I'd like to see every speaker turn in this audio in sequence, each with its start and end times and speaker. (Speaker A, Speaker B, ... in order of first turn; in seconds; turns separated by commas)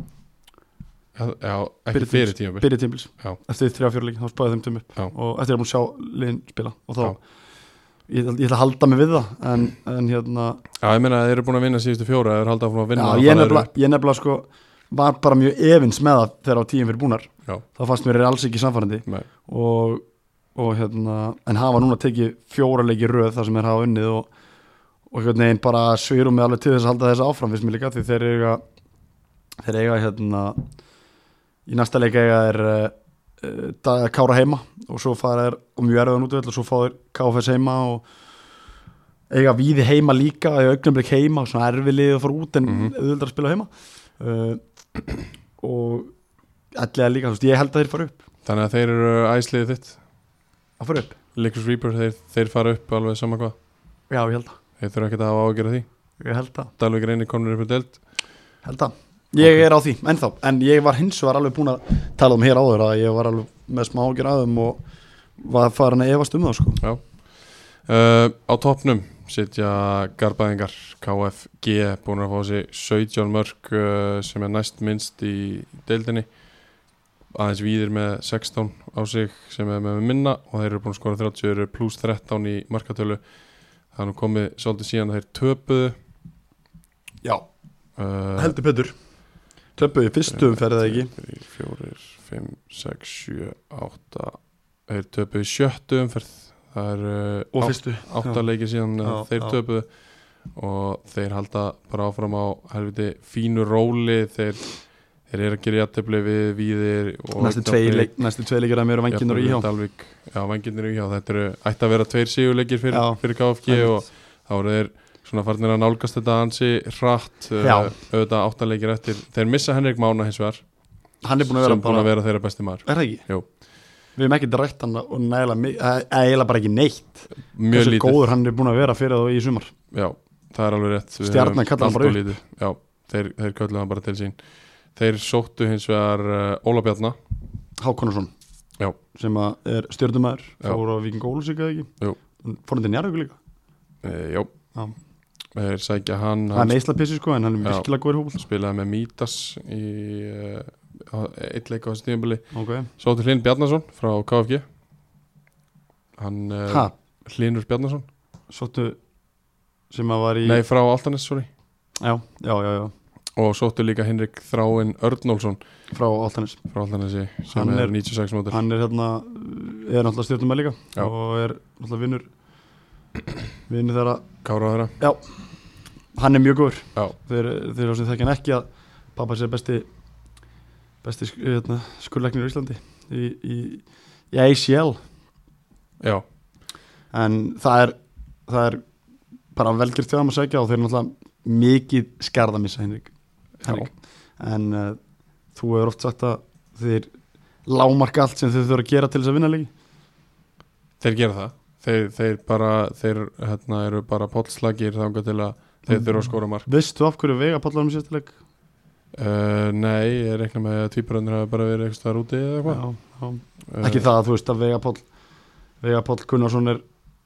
Speaker A: 1.1-2.7, Speaker B: 1.9-7.2, Speaker B: 8.1-10.6, Speaker A: 10.8-13.7, Speaker B: 12.9-20.0, Speaker B: 20.5-24.3, Speaker B: 25.1-28.6, Speaker B: 29.6-30.6, Speaker B: 31.6-38.0, Speaker B: 39.3-44.6, Speaker A: 42.6-42.9, Speaker B: 45.6-46.1, Speaker B: 46.7-48.2, Speaker A: 48.4-50.0, Speaker B: 50.8-51.2, Speaker A: 51.3-53.5, Speaker B: 54.1-54.5, Speaker A: 54.8-55.9, Speaker B: 56.2-56.7, Speaker A: 56.8-58.0, Speaker B: 58.6-64.8, Speaker A: 59.4-59.6, Speaker B: 65.4-66.8, Speaker A: 66.8-76.4, Speaker A: 77.3-83.2, Speaker A: 83.9-86.0, Speaker A: 88.0-88.5, Speaker B: 88.4-88.9, Speaker B: 89.8-91.1, Speaker A: 90.3-104.8, Speaker B: 97.5-98.4, Speaker B: 99.0-99.5, Speaker A: 105.3-108.1, Speaker B: 107.4-109.7, Speaker A: 109.1-120.7, Speaker B: 112.9-114.0, Speaker B: 117.6-117.9, Speaker B: 121.2-122.1, Speaker A: 121.4-123.5, Speaker B: 122.8-123.3, Speaker B: 124.1-129.7, Speaker A: 127.4-128.3, Speaker A: 129.9-134.4, Speaker B: 131.2-132.3, Speaker A: 134.9-137.2, Speaker B: 137.8-138.3, Speaker B: 139.1-141.9, Speaker B: 142.4-143.4, Speaker A: 144.0-144.5, Speaker A: 145.5-146.8, Speaker B: 146.5-148.4, Speaker A: 147.6-152.4, Speaker B: 152.5-152.9, Speaker A: 153.0-154.6, Speaker A: 156.2-158.1, Speaker B: 158.5-159.0, Speaker B: 159.9-160.6, Speaker A: 160.4-161.5, Speaker B: 162.0-162.9, Speaker A: 163.4-165.6, Speaker B: 165.9-166.6, Speaker A: 166.7-168.6, Speaker B: 167.5-167.9, Speaker B: 168.5-172.2, Speaker B: 173.7-174.2, Speaker A: 174.4-174.9, Speaker B: 176.2-179.8, Speaker B: 181.0-185.0, Speaker B: 187.1-187.9, Speaker B: 188.5-188.8, Speaker B: 189.5-193.1, Speaker A: 193.6-193.9, Speaker B: 193.6-195.0, Speaker B: 195.5-197.1, Speaker B: 197.7-199.7, Speaker A: 201.0-206.7, Speaker B: 205.9-208.3, Speaker A: 209.1-212.8, Speaker B: 212.7-215.0, Speaker A: 213.7-214.1, Speaker B: 215.8-216.8